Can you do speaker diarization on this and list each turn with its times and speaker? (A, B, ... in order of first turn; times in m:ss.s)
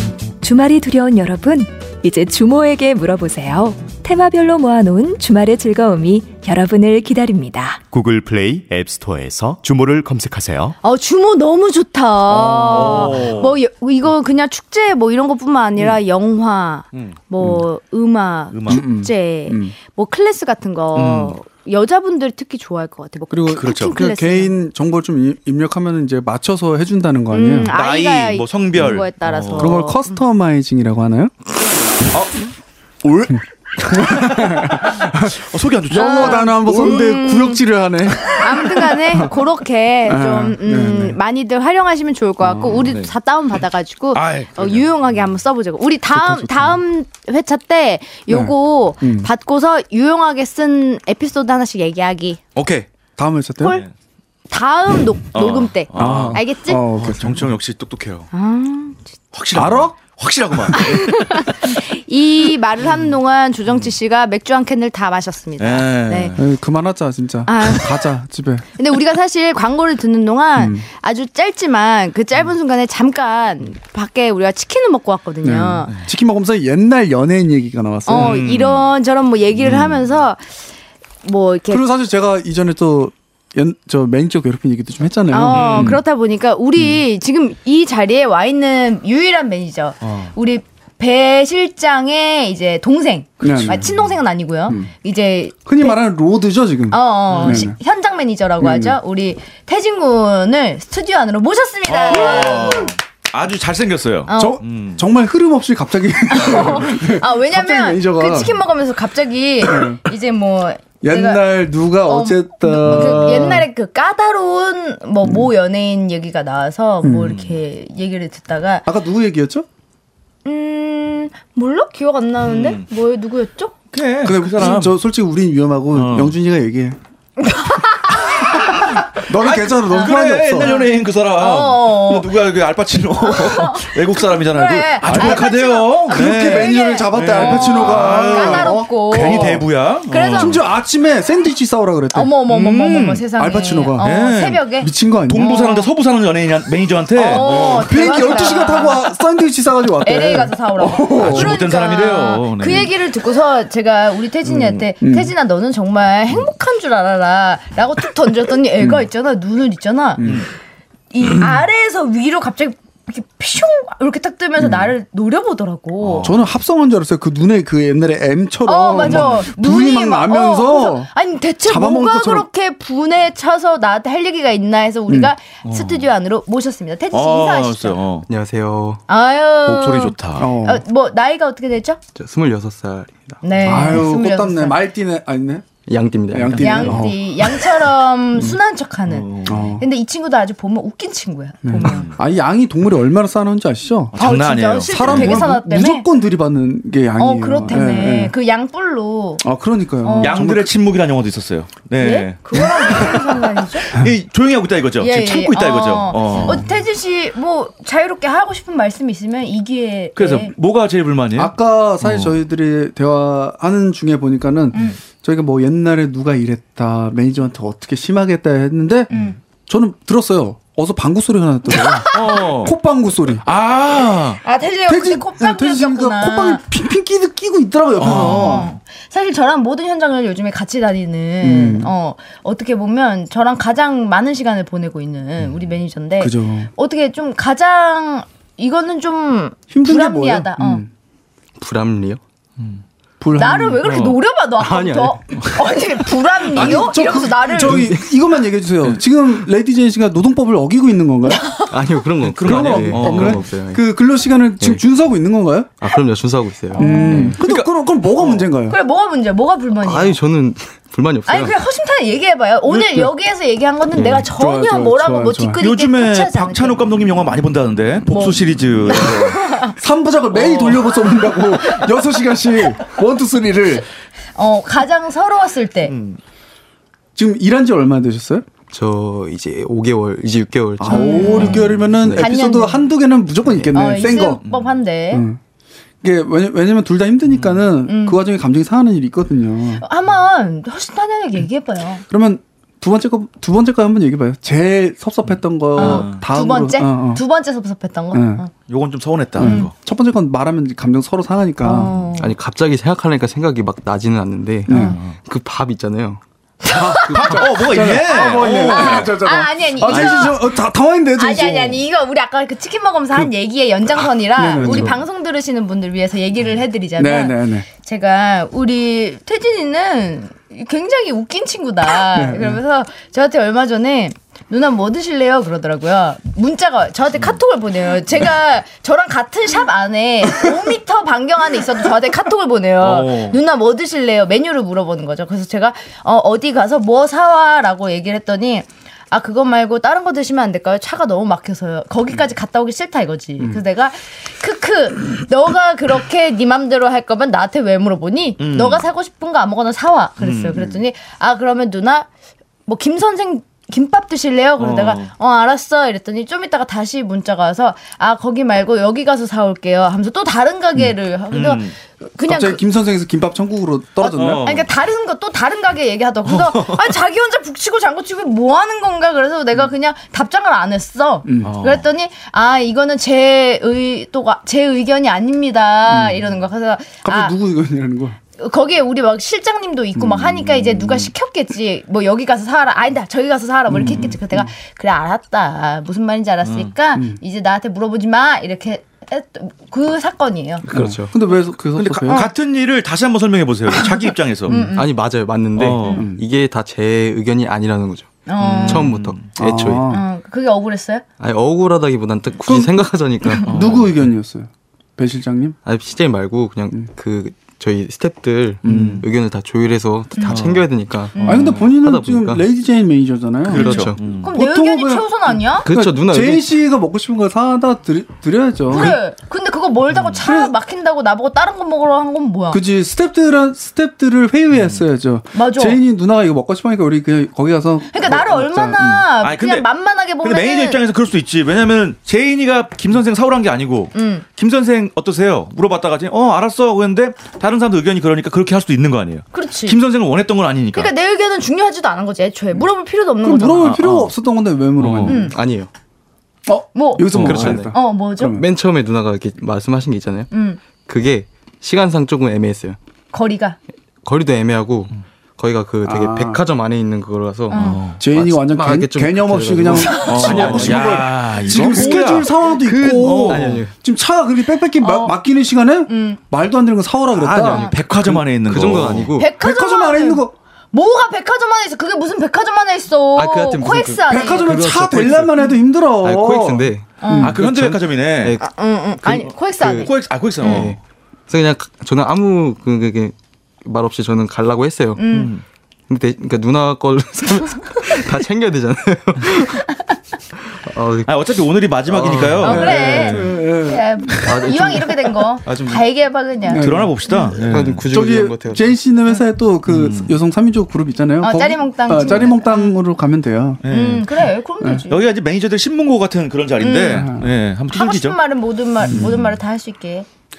0:00.4-0:07.8 A
0:07.9-0:10.8 B
0:10.8-0:24.6 C
0:12.3-0:13.6 D
0:18.5-0:18.8 D
0:18.7-0:19.7 E
0:20.9-0:21.4 D
0:23.3-0:27.7 E
0:23.5-0:24.0 D
0:27.3-0:30.2 C
0:27.7-0:29.8 D
0:29.6-0:31.3 E
0:32.1-0:32.4 D
0:33.0-0:36.5 D
0:33.3-0:39.3 E
0:35.9-0:37.6 C
0:38.3-0:52.4 C
0:40.1-0:41.2 E
0:42.4-0:42.8 E
0:42.7-0:43.1 D
0:44.1-0:45.2 D
0:46.1-0:46.8 E
0:48.3-0:49.3 E
0:52.5-0:52.9 D
0:53.2-0:53.8 E
0:54.5-0:56.8 C
0:55.3-0:56.4 D
0:56.0-0:57.5 E
0:57.0-0:58.3 D
0:58.3-0:59.1 C
0:59.3-1:01.5 D
0:59.5-1:00.0 E
1:00.8-1:06.3 C
1:05.6-1:06.4 D
1:06.4-1:08.7 E
1:07.5-1:08.1 C
1:08.8-1:15.9 C
1:10.6-1:10.8 E
1:15.4-1:18.4 E
1:18.1-1:20.5 C
1:18.1-1:18.9 D
1:19.6-1:20.1 D
1:21.2-1:21.8 C
1:21.7-1:26.0 E
1:25.3-1:36.0 C
1:25.5-1:26.0 D
1:30.0-1:30.3 D
1:33.4-1:33.8 E
1:33.7-1:34.1 D
1:35.6-1:37.8 E
1:36.9-1:42.9 C
1:37.3-1:37.7 D
1:38.6-1:39.0 E
1:41.9-1:45.0 D
1:44.3-1:44.6 C
1:44.3-1:48.6 E
1:46.3-1:51.4 C
1:49.6-1:50.0 E
1:51.0-1:53.7 E
1:52.0-1:58.8 C
1:52.8-1:53.3 D
1:55.2-1:55.5 E
1:57.0-1:57.4 E
1:58.8-1:59.6 E
2:00.4-2:03.7 C
2:02.4-2:02.8 D
2:03.9-2:05.0 D
2:04.2-2:07.0 E
2:05.9-2:06.3 D
2:07.4-2:08.8 C
2:09.2-2:10.8 E
2:09.2-2:20.6 D
2:09.9-2:12.3 C
2:13.2-2:20.6 C
2:15.0-2:15.5 E
2:16.1-2:19.7 E
2:20.3-2:22.3 E
2:22.1-2:25.9 C
2:22.5-2:23.2 D
2:23.3-2:24.1 E
2:24.0-2:24.6 D
2:24.8-2:25.5 E
2:25.3-2:28.3 D
2:27.2-2:29.1 C
2:27.2-2:31.6 E
2:30.0-2:40.3 C
2:31.2-2:32.9 D
2:35.0-2:35.3 E
2:38.8-2:39.0 E
2:40.2-2:40.4 E
2:40.2-2:40.5 D
2:41.1-2:46.3 C
2:44.6-2:44.9 E
2:46.0-2:46.4 D
2:46.2-2:51.1 E
2:48.6-2:58.0 C
2:49.0-2:49.4 D
2:51.6-2:52.4 E
2:55.1-2:55.3 E
2:55.6-2:56.1 D
2:57.1-2:58.3 D
2:58.3-2:59.0 F
2:59.1-3:02.0 C
2:59.6-3:00.5 D
3:00.4-3:00.8 E
3:02.2-3:03.4 F
3:03.4-3:04.8 C
3:03.6-3:05.6 E
3:05.9-3:07.1 F
3:06.3-3:07.2 E
3:06.6-3:12.1 C
3:09.1-3:09.7 D
3:09.5-3:09.8 E
3:11.6-3:14.2 E
3:11.8-3:12.2 D
3:14.1-3:15.5 D
3:14.2-3:16.1 C
3:14.9-3:18.3 E
3:17.2-3:19.4 C
3:19.4-3:20.7 E
3:20.0-3:20.4 C
3:20.2-3:26.6 D
3:22.0-3:23.9 C
3:25.0-3:30.5 C
3:30.2-3:32.3 D
3:31.4-3:39.1 E
3:39.7-3:43.4 E
3:41.8-3:42.4 C
3:42.1-3:42.7 D
3:43.4-3:44.4 D
3:44.4-3:46.6 C
3:44.9-3:48.7 E
3:48.0-3:48.7 D
3:48.0-4:00.8 C
3:51.4-3:51.9 E
3:56.2-3:56.7 E
3:59.7-4:00.9 E
4:01.6-4:02.2 F
4:02.6-4:02.8 D
4:03.2-4:03.8 E
4:03.3-4:07.9 C
4:03.8-4:04.2 D
4:04.6-4:05.6 F
4:06.5-4:11.4 E
4:07.6-4:08.0 F
4:11.3-4:11.7 C
4:11.7-4:13.8 F
4:12.2-4:13.4 D
4:12.4-4:15.7 E
4:15.8-4:17.4 F
4:16.7-4:17.3 C
4:16.8-4:18.8 E
4:17.1-4:18.5 D
4:18.7-4:20.2 C
4:19.8-4:21.6 F
4:21.2-4:26.8 C
4:22.6-4:23.1 E
4:24.3-4:25.6 E
4:25.6-4:29.6 D
4:28.1-4:29.7 C
4:29.7-4:33.8 E
4:30.3-4:31.0 D
4:34.4-4:35.9 C
4:35.9-4:36.2 D
4:37.2-4:38.4 E
4:38.7-4:42.3 F
4:40.8-4:44.4 E
4:40.9-4:42.9 C
4:41.2-4:41.9 D
4:43.7-4:45.2 C
4:44.4-4:44.8 D
4:45.1-4:45.4 E
4:46.0-4:49.8 E
4:47.3-4:47.6 D
4:47.8-4:48.2 C
4:49.8-4:52.0 C
4:52.1-4:57.2 E
4:55.7-4:56.2 D
4:55.8-4:58.5 C
4:58.1-4:58.4 E
4:58.7-4:59.7 D
4:59.4-5:01.9 E
4:59.4-4:59.7 C
5:01.6-5:02.3 C
5:02.2-5:06.2 F
5:04.7-5:05.0 E
5:04.7-5:05.2 D
5:06.6-5:10.6 C
5:06.6-5:11.8 E
5:07.1-5:09.1 D
5:09.9-5:10.2 F
5:11.2-5:52.1 C
5:14.4-5:15.0 E
5:14.6-5:14.9 F
5:17.0-5:17.7 E
5:22.1-5:22.6 E
5:32.8-5:33.4 D
5:48.4-5:48.8 D
5:50.2-5:50.7 D
5:52.7-6:02.6 C
5:54.6-5:55.1 D
6:01.3-6:01.7 D
6:02.2-6:04.5 E
6:04.0-6:17.3 C
6:04.1-6:04.6 D
6:06.2-6:06.9 D
6:11.2-6:11.6 E
6:11.4-6:11.9 D
6:15.9-6:16.2 E
6:17.0-6:18.2 E
6:18.4-6:30.6 C
6:20.0-6:21.1 E
6:23.7-6:24.5 E
6:26.4-6:26.7 D
6:26.9-6:27.2 E
6:30.6-6:31.1 F
6:30.7-6:32.3 E
6:31.7-6:34.6 D
6:33.8-6:34.9 C
6:34.5-6:34.8 E
6:34.7-6:40.0 F
6:35.6-6:36.0 D
6:35.9-6:36.2 E
6:38.3-6:38.9 C
6:38.4-6:39.2 D
6:39.4-6:40.0 E
6:39.9-6:41.0 C
6:41.2-6:43.6 F
6:42.4-6:42.8 E
6:43.4-6:45.6 E
6:43.4-6:43.9 D
6:45.6-6:52.4 F
6:48.6-6:49.0 E
6:48.6-6:49.0 D
6:50.2-6:50.6 C
6:50.3-6:50.6 D
6:51.1-6:51.6 C
6:51.2-6:51.6 D
6:51.2-6:59.0 E
6:53.5-6:54.3 D
6:53.5-6:54.0 F
6:54.1-6:55.7 C
6:55.6-6:56.5 F
6:58.7-7:02.6 C
6:59.9-7:00.2 D
7:00.2-7:00.5 E
7:02.5-7:09.1 E
7:04.5-7:04.8 D
7:05.3-7:05.8 C
7:07.9-7:10.8 C
7:09.2-7:09.7 D
7:10.2-7:20.9 D
7:13.9-7:14.2 C
7:19.3-7:19.8 C
7:20.7-7:23.8 C
7:23.2-7:25.3 E
7:23.6-7:24.1 D
7:24.8-7:25.2 D
7:25.0-7:25.7 F
7:25.0-7:25.4 C
7:26.4-7:28.4 E
7:26.7-7:28.4 C
7:27.1-7:27.6 D
7:27.2-7:27.8 F
7:28.3-7:30.3 F
7:30.3-7:30.6 C
7:30.8-7:32.8 F
7:33.1-7:33.6 C
7:34.0-7:43.7 F
7:35.8-7:36.4 E
7:37.5-7:37.8 C
7:37.5-7:38.0 D
7:38.0-7:48.2 E
7:39.8-7:40.5 C
7:40.0-7:42.4 D
7:42.9-7:43.6 D
7:44.8-7:45.2 C
7:45.9-7:46.2 C
7:47.1-7:49.1 D
7:47.5-7:47.8 C
7:48.4-7:49.3 F
7:49.2-7:54.6 C
7:49.2-7:50.3 E
7:53.2-7:55.5 F
7:54.1-7:57.4 E
7:56.0-8:05.0 F
7:57.0-7:57.4 C
7:57.2-7:58.4 D
7:58.4-8:00.7 C
7:59.8-8:00.8 D
8:05.0-8:05.3 C
8:05.1-8:05.4 D
8:05.9-8:09.8 F
8:10.5-8:11.1 F
8:11.0-8:13.2 D
8:11.9-8:13.4 F
8:12.4-8:17.3 C
8:12.4-8:14.6 E
8:14.2-8:15.8 F
8:16.4-8:16.9 E
8:16.6-8:17.8 D
8:17.4-8:18.7 F
8:17.9-8:23.6 E
8:19.7-8:20.1 D
8:21.2-8:22.8 C
8:23.6-8:24.1 D
8:23.7-8:25.1 C
8:24.9-8:28.2 D
8:26.6-8:27.1 C
8:26.9-8:27.3 E
8:27.7-8:30.1 C
8:28.8-8:29.2 E
8:28.9-8:29.2 D